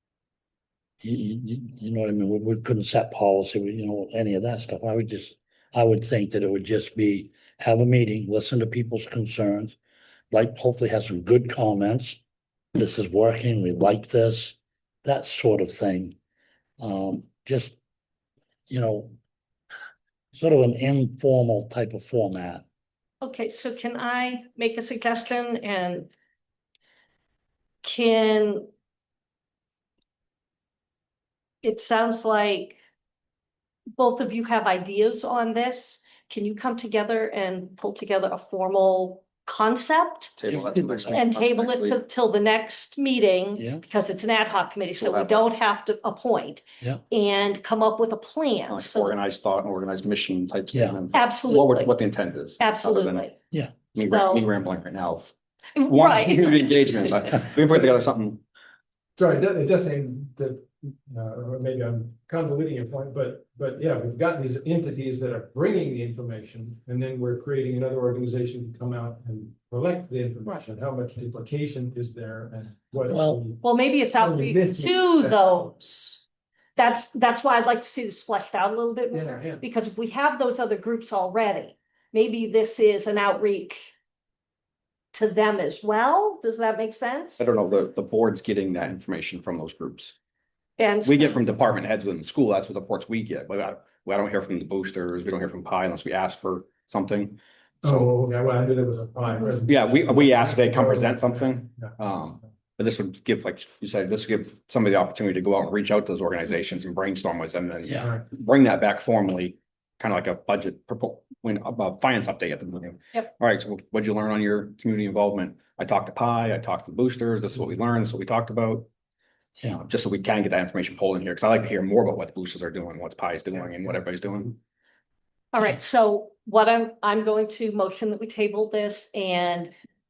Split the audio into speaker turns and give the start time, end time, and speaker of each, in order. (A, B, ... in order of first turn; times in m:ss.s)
0:01.0-0:09.8 A
0:10.3-0:12.2 A
0:12.7-0:16.2 A
0:16.8-0:17.8 A
0:18.7-0:19.1 A
0:20.3-0:22.6 A
0:23.2-0:26.1 B
0:27.8-0:28.7 B
0:31.6-0:32.8 B
0:34.0-0:40.4 B
0:40.4-0:42.0 C
0:40.5-0:41.2 A
0:41.1-0:49.2 B
0:43.6-0:43.8 A
0:45.0-0:45.4 C
0:48.7-0:53.3 C
0:50.7-0:51.0 A
0:51.1-0:51.9 B
0:52.6-0:53.3 B
0:53.9-0:58.4 C
0:54.0-0:54.5 B
0:55.8-0:56.8 B
0:59.2-1:13.6 D
1:13.1-1:13.4 A
1:13.6-1:16.2 B
1:14.4-1:14.9 D
1:16.8-1:23.9 B
1:19.2-1:19.6 D
1:25.1-1:27.4 B
1:27.4-1:30.2 C
1:30.8-1:31.4 B
1:31.0-1:38.1 C
1:37.8-1:41.2 D
1:39.7-1:58.9 C
1:59.7-2:04.6 C
2:05.5-2:09.7 B